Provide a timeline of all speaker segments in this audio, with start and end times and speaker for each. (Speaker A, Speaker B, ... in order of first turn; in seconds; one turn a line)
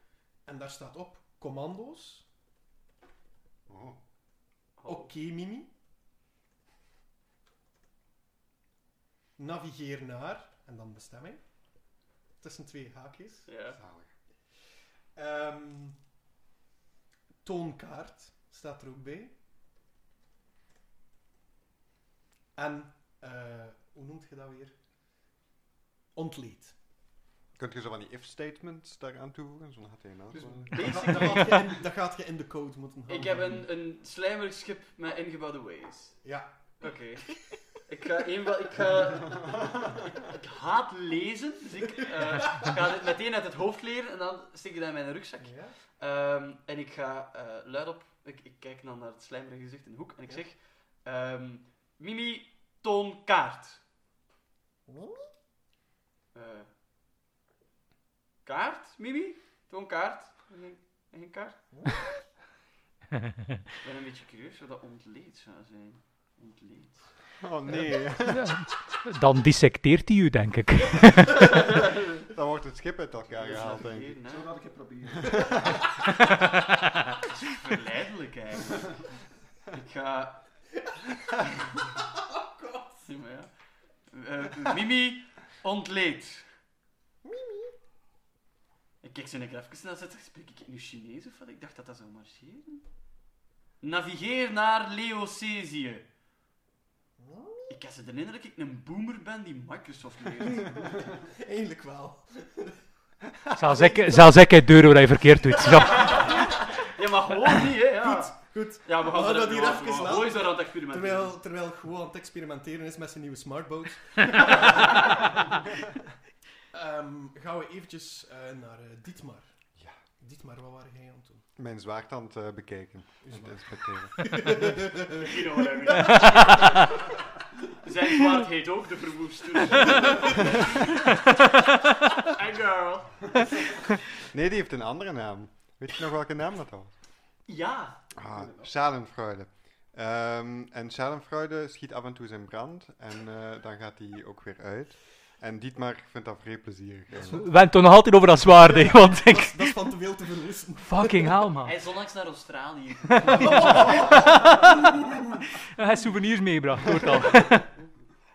Speaker A: 0.5-2.2
Speaker B: 3.7-4.0
Speaker C: 4.8-5.1
Speaker A: 4.8-5.7
Speaker A: 9.4-11.4
Speaker A: 12.4-13.5
Speaker C: 13.5-13.8
Speaker B: 13.7-14.1
Speaker A: 15.1-16.0
Speaker A: 17.4-19.3
Speaker A: 22.6-24.8
Speaker A: 26.1-26.7
Speaker B: 27.6-31.4
Speaker C: 30.7-31.8
Speaker A: 30.7-33.6
Speaker C: 33.1-36.2
Speaker C: 36.8-53.8
Speaker A: 45.4-45.7
Speaker C: 56.3-56.7
Speaker C: 58.4-61.6
Speaker C: 63.8-67.1
Speaker B: 67.4-68.5
Speaker D: 68.2-71.5
Speaker B: 72.3-74.2
Speaker C: 73.3-74.5
Speaker E: 73.6-75.8
Speaker C: 77.2-78.9
Speaker C: 79.7-80.4
Speaker A: 82.3-83.0
Speaker C: 83.0-83.5
Speaker C: 84.1-86.5
Speaker A: 87.2-87.6
Speaker C: 89.0-92.8
Speaker C: 93.8-96.0
Speaker A: 97.2-97.6
Speaker C: 97.7-100.9
Speaker A: 100.6-102.8
Speaker D: 103.5-106.3
Speaker A: 103.6-104.5
Speaker A: 105.6-106.4
Speaker C: 106.0-111.4
Speaker A: 107.8-115.8
Speaker A: 116.7-119.5
Speaker A: 120.2-121.4
Speaker B: 121.6-124.8
Speaker A: 123.2-123.5
Speaker A: 124.2-126.2
Speaker C: 125.1-126.9
Speaker C: 127.8-131.1
Speaker C: 132.2-133.6
Speaker B: 134.3-136.9
Speaker C: 137.4-138.0
Speaker B: 138.2-147.4
Speaker E: 138.2-138.7
Speaker A: 147.2-147.4
Speaker D: 147.2-149.8
Speaker A: 148.6-151.4
Speaker D: 150.8-151.7
Speaker C: 151.6-154.2
Speaker D: 153.1-154.9
Speaker A: 153.3-154.5
Speaker D: 155.6-157.7